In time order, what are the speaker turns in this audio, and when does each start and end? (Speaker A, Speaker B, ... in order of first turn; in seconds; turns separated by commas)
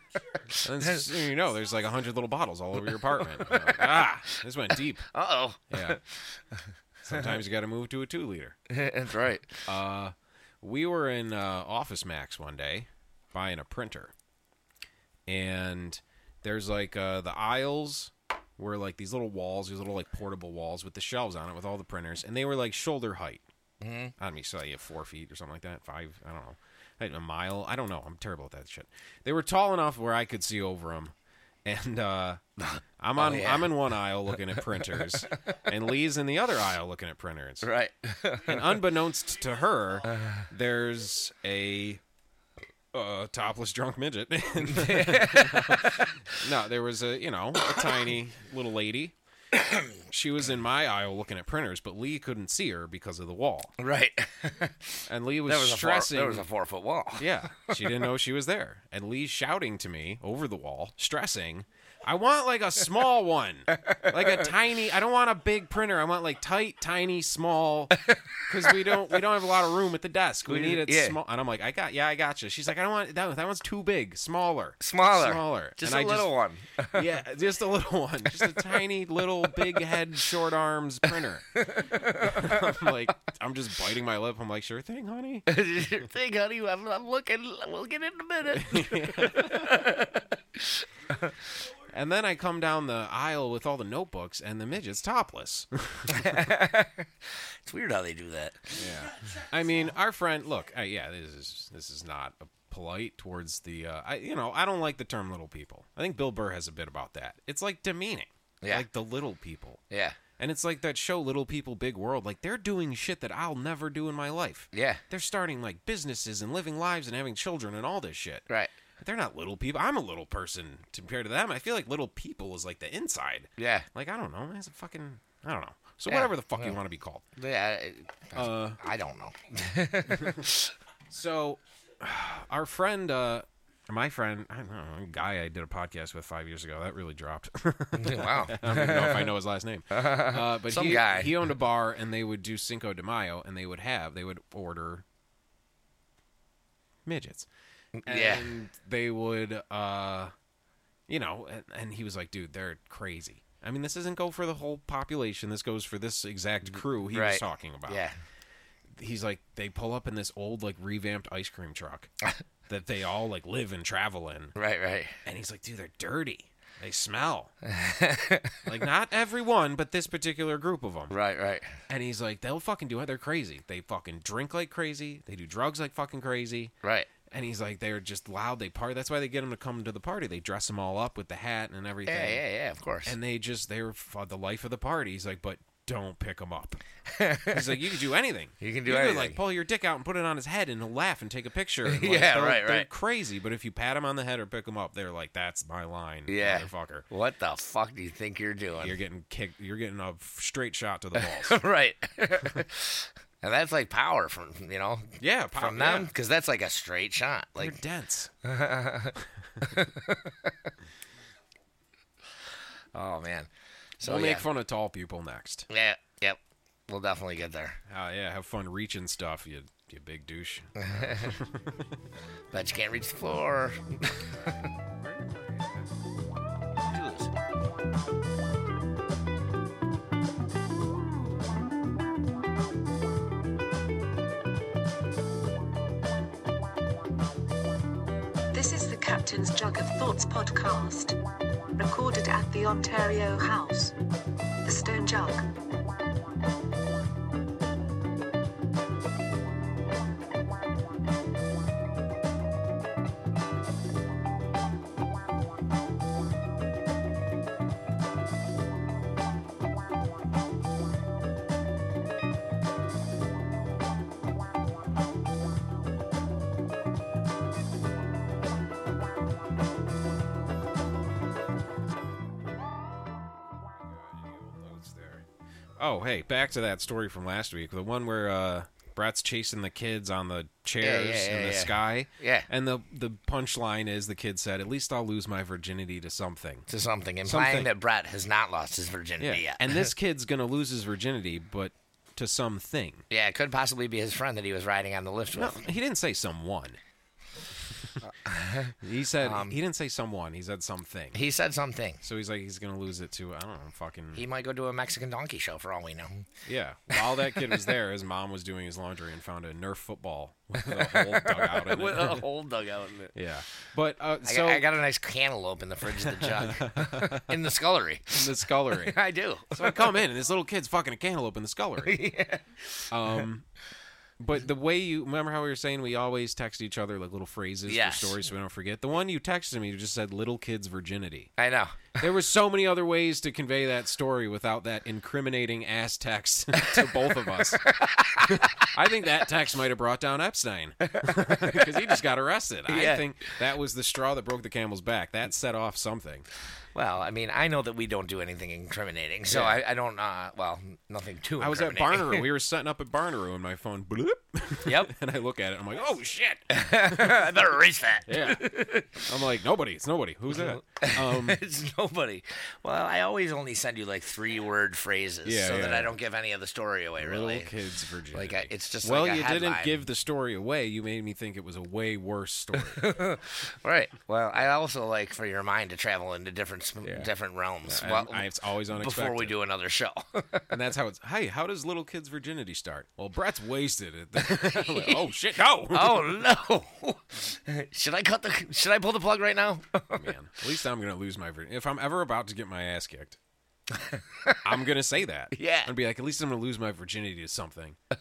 Speaker A: 0.5-1.2, Speaker B: 0.5-5.0, Speaker A: 2.9-4.4, Speaker A: 5.1-7.3, Speaker B: 5.7-6.0, Speaker B: 7.0-8.6, Speaker A: 8.7-9.7, Speaker B: 9.7-14.1, Speaker B: 15.3-23.4, Speaker A: 23.8-24.1, Speaker B: 24.2-31.1, Speaker B: 31.6-32.4, Speaker A: 32.6-33.9, Speaker B: 33.0-37.7, Speaker A: 34.6-35.5, Speaker A: 37.6-38.8, Speaker B: 38.5-42.0, Speaker A: 40.1-40.5, Speaker B: 42.9-49.1, Speaker A: 44.6-46.4, Speaker A: 49.5-49.9, Speaker B: 50.1-53.7, Speaker A: 53.8-58.0, Speaker B: 55.1-56.5, Speaker B: 57.2-76.3, Speaker A: 63.7-64.5, Speaker A: 67.9-69.2, Speaker A: 70.4-71.2, Speaker A: 74.8-77.0, Speaker B: 76.9-85.5, Speaker A: 78.4-78.8, Speaker A: 79.5-79.9, Speaker A: 81.5-82.9, Speaker A: 85.5-91.4, Speaker B: 88.5-89.9, Speaker B: 91.9-96.5, Speaker A: 96.1-98.9, Speaker B: 98.7-109.8, Speaker A: 108.6-108.9, Speaker A: 109.9-110.2, Speaker B: 110.4-118.5, Speaker A: 114.7-115.0, Speaker B: 119.0-127.2, Speaker A: 123.6-123.9, Speaker A: 126.1-126.8, Speaker A: 127.3-130.7, Speaker B: 128.3-128.8, Speaker B: 130.1-130.5, Speaker B: 131.1-145.0, Speaker A: 137.9-139.3, Speaker A: 139.9-141.3, Speaker B: 147.1-147.5, Speaker A: 147.9-148.5, Speaker B: 148.0-150.3, Speaker B: 151.1-158.0, Speaker A: 157.1-158.2, Speaker B: 158.9-162.1, Speaker B: 162.7-164.5, Speaker A: 164.6-165.2, Speaker B: 165.2-167.5, Speaker A: 167.6-168.7, Speaker B: 168.6-171.1, Speaker A: 171.1-171.7, Speaker B: 171.9-176.7, Speaker A: 176.8-177.1, Speaker B: 177.3-182.4, Speaker A: 182.1-183.1, Speaker B: 183.0-186.8, Speaker A: 187.1-187.9, Speaker B: 187.5-197.1, Speaker A: 188.6-189.4, Speaker A: 191.8-192.9, Speaker A: 196.3-199.0, Speaker B: 198.8-201.6, Speaker A: 201.2-207.8, Speaker B: 205.2-206.1, Speaker B: 207.6-208.3, Speaker A: 208.4-210.7, Speaker A: 212.9-213.5, Speaker A: 214.0-214.4, Speaker B: 214.0-215.7, Speaker A: 215.7-217.8, Speaker B: 217.9-221.9, Speaker A: 220.8-221.4, Speaker A: 222.5-224.7, Speaker B: 224.4-225.9, Speaker A: 226.8-227.3, Speaker C: 238.5-241.2, Speaker C: 241.8-243.9, Speaker C: 244.6-245.5, Speaker B: 273.7-275.3, Speaker B: 275.8-286.6, Speaker A: 280.8-282.5, Speaker A: 286.7-289.9, Speaker B: 287.2-287.7, Speaker B: 289.2-293.0, Speaker A: 293.1-295.7, Speaker B: 295.3-296.8, Speaker B: 297.6-298.0, Speaker A: 298.0-299.6, Speaker B: 298.8-301.2, Speaker A: 301.1-302.0, Speaker B: 302.0-304.2, Speaker A: 304.1-306.3, Speaker B: 306.4-312.2, Speaker A: 306.9-307.7, Speaker A: 310.6-313.1, Speaker B: 313.1-314.7, Speaker A: 314.2-319.9, Speaker B: 316.0-317.4, Speaker B: 318.1-319.0, Speaker B: 319.5-322.0, Speaker A: 321.8-323.2, Speaker B: 322.9-323.5, Speaker B: 324.2-331.3, Speaker A: 327.7-328.2, Speaker A: 331.4-332.1, Speaker B: 332.0-337.6, Speaker A: 336.5-338.7, Speaker B: 338.2-346.2, Speaker A: 340.8-342.0, Speaker A: 342.7-343.4, Speaker A: 346.7-352.2, Speaker B: 349.3-349.6, Speaker B: 351.4-357.4, Speaker A: 354.6-354.9, Speaker A: 356.5-359.1, Speaker B: 358.1-361.4, Speaker A: 360.3-367.5, Speaker B: 365.2-365.9, Speaker B: 367.0-372.9, Speaker A: 368.1-369.8, Speaker A: 372.5-380.5, Speaker B: 376.8-377.1, Speaker B: 377.6-379.4, Speaker B: 380.5-386.2, Speaker A: 384.2-385.1, Speaker A: 385.7-390.1, Speaker B: 389.9-393.2, Speaker A: 393.7-394.4, Speaker B: 394.4-397.8, Speaker A: 395.3-395.7